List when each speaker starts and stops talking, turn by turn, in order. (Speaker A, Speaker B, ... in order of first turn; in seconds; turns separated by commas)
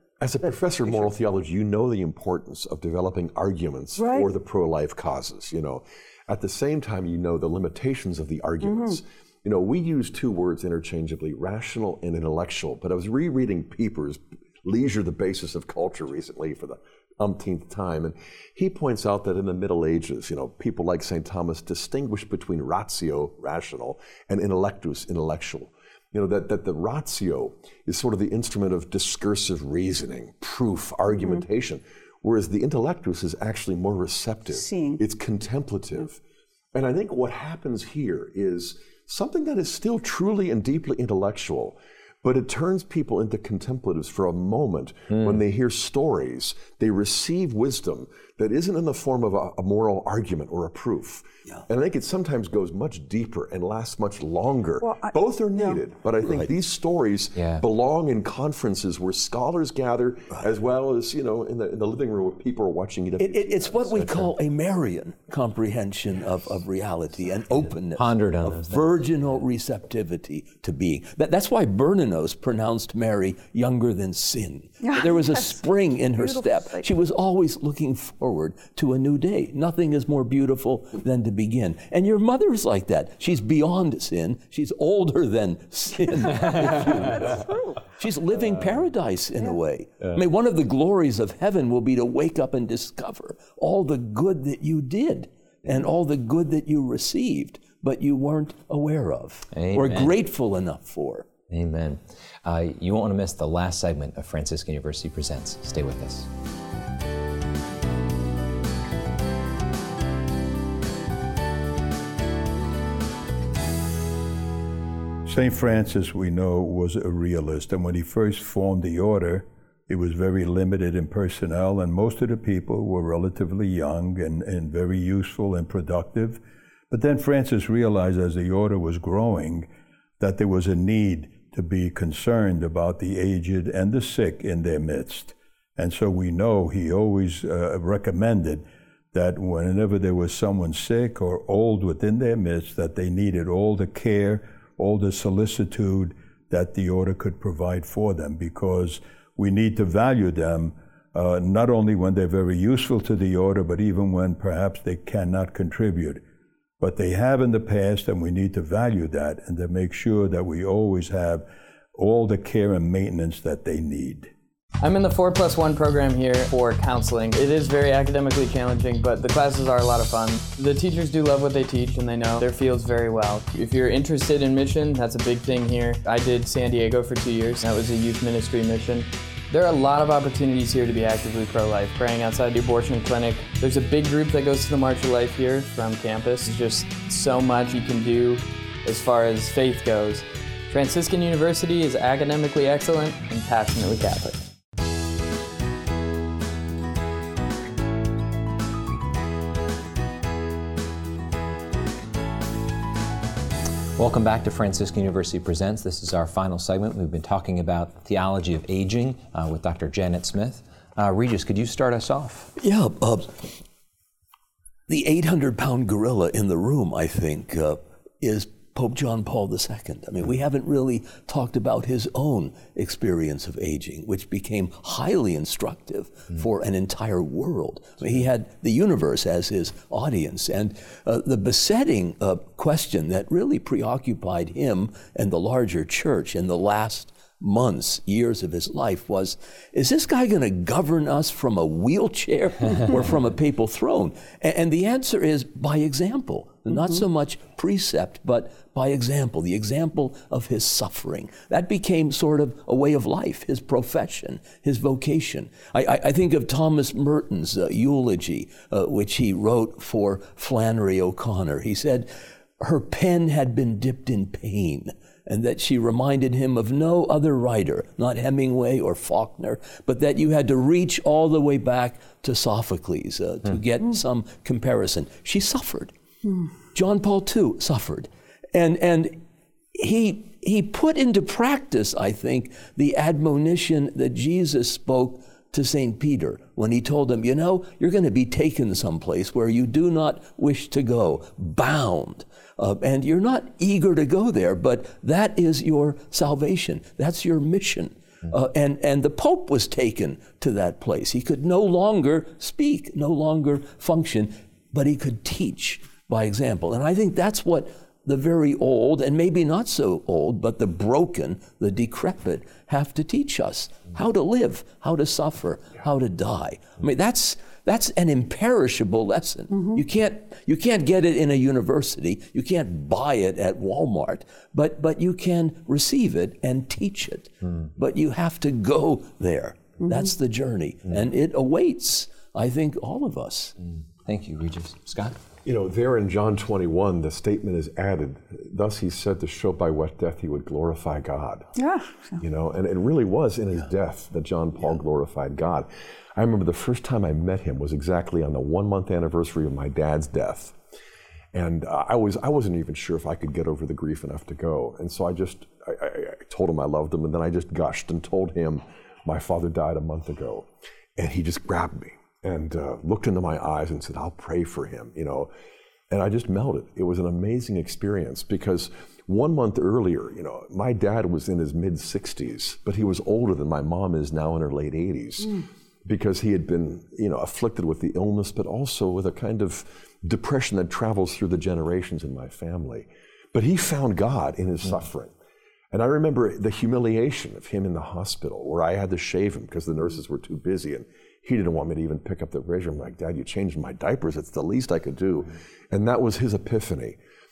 Speaker A: 0.2-36.2, Speaker B: 4.0-4.3, Speaker B: 8.6-9.0, Speaker B: 34.5-35.0, Speaker A: 36.7-64.1, Speaker C: 45.1-45.4, Speaker B: 54.8-55.8, Speaker C: 57.4-57.6, Speaker D: 63.2-101.3, Speaker C: 68.0-69.0, Speaker B: 74.8-75.6, Speaker B: 76.2-76.9, Speaker B: 86.3-87.9, Speaker C: 99.5-100.1, Speaker C: 101.5-106.3, Speaker E: 115.3-129.7, Speaker E: 130.2-156.2, Speaker E: 156.8-164.3, Speaker F: 164.8-194.5, Speaker C: 204.0-212.5, Speaker D: 212.6-213.6, Speaker D: 214.9-262.1, Speaker D: 262.6-275.9, Speaker D: 276.7-279.2, Speaker D: 279.8-333.6, Speaker B: 319.5-319.8, Speaker B: 329.8-330.1, Speaker C: 334.0-335.2, Speaker A: 335.4-341.5, Speaker B: 341.6-342.2, Speaker A: 342.2-350.6, Speaker A: 351.3-365.3, Speaker A: 365.9-385.1, Speaker A: 385.7-397.0